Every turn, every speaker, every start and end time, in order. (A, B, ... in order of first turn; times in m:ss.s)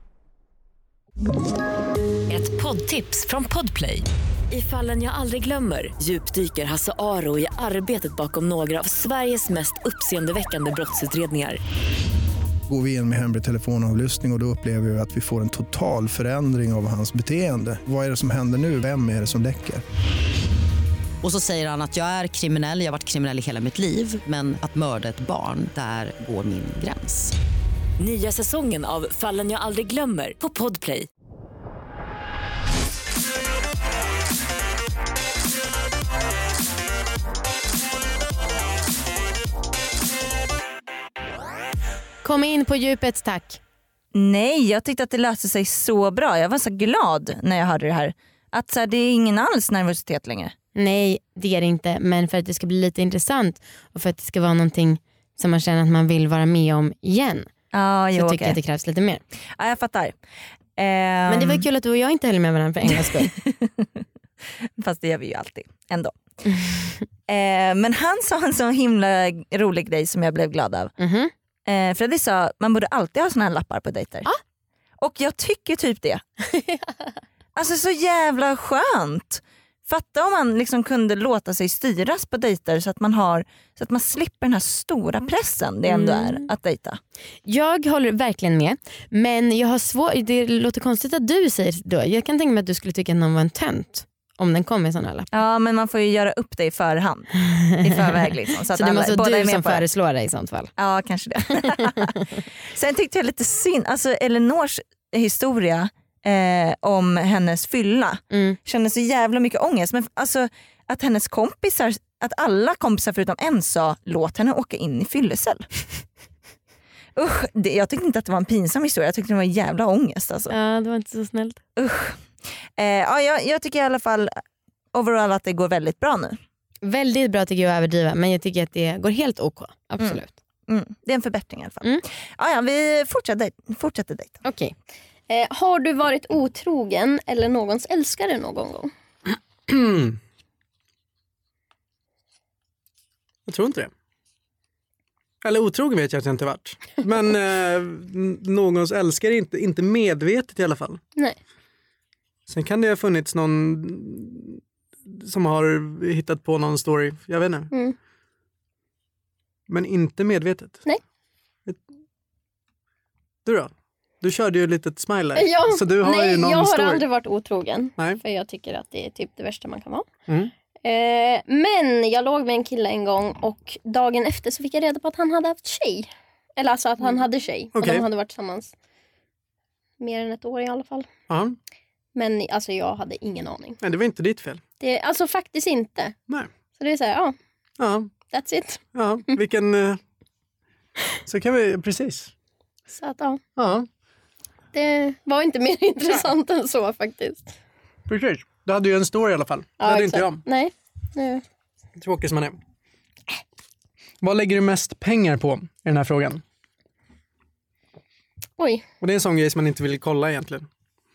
0:02.3-0:11.6 A
0:12.7-0:19.8 B
0:21.2-0:27.3 C
0:28.0-0:31.1 A
0:42.2-0:43.6 D
0:44.1-0:50.5 E
0:50.8-0:57.5 D
0:57.7-0:58.6 E
0:58.1-0:59.2 D
0:59.6-1:00.1 E
1:00.8-1:01.6 E
1:01.3-1:03.3 D
1:02.9-1:04.0 E
1:04.8-1:06.1 E
1:06.4-1:07.0 D
1:07.3-1:10.9 E
1:11.0-1:11.3 D
1:11.6-1:14.3 E
1:15.0-1:16.2 E
1:17.6-1:27.0 E
1:25.8-1:26.5 D
1:27.4-1:35.3 D
1:35.3-1:39.8 E
1:37.5-1:40.7 D
1:40.8-1:42.2 E
1:41.5-1:42.1 D
1:42.7-1:55.6 E
1:48.3-1:48.6 D
1:57.2-2:00.6 E
2:00.5-2:01.6 D
2:01.8-2:02.2 E
2:02.8-2:04.4 E
2:04.9-2:06.4 E
2:06.8-2:10.3 D
2:10.0-2:14.4 E
2:14.4-2:14.7 D
2:15.3-2:18.9 F
2:19.7-2:20.2 G
2:23.5-2:23.9 G
2:25.4-2:31.0 G
2:32.5-2:37.7 G
2:39.7-2:40.8 G
2:43.4-2:47.0 G
2:45.3-2:50.1 F
2:50.8-2:58.7 F
2:57.8-2:58.0 G
3:00.0-3:01.1 F
3:01.3-3:01.6 G
3:02.1-3:03.8 F
3:03.8-3:04.6 G
3:04.8-3:06.1 F
3:06.8-3:07.3 F
3:07.8-3:08.1 G
3:08.3-3:08.8 F
3:08.9-3:10.0 G
3:11.2-3:12.3 G
3:12.9-3:13.4 F
3:13.6-3:13.9 G
3:14.7-3:17.5 F
3:18.1-3:20.4 G
3:19.8-3:21.4 F
3:22.0-3:22.6 G
3:24.2-3:26.4 G
3:28.6-3:28.8 F
3:29.0-3:30.7 G